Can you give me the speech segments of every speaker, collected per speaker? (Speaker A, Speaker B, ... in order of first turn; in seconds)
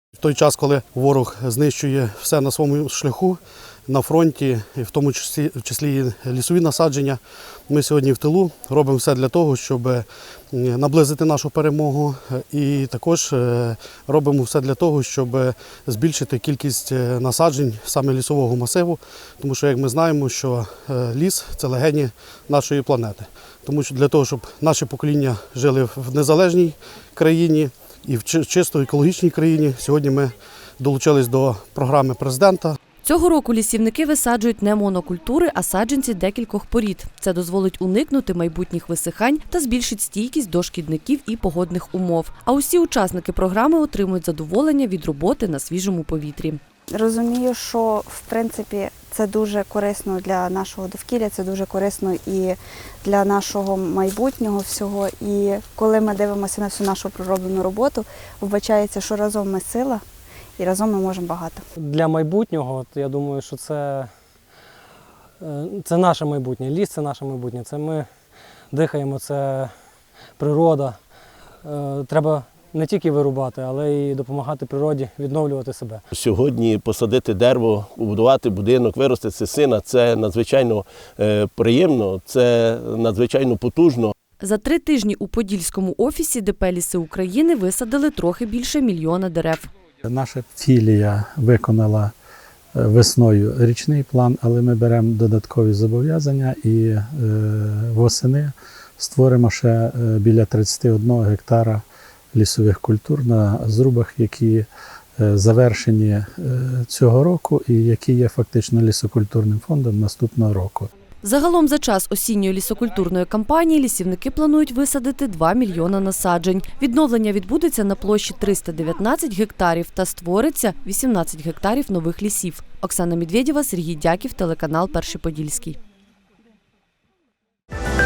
Speaker A: 0.2-32.8
Speaker B: 33.0-46.6, 84.4-89.7, 111.2-125.8
Speaker C: 46.9-60.0, 60.6-61.6
Speaker D: 61.8-64.1, 65.4-68.1, 68.7-69.7, 70.4-71.0, 71.7-76.0
Speaker E: 76.2-84.1
Speaker F: 90.0-92.1, 92.8-104.7, 105.2-110.9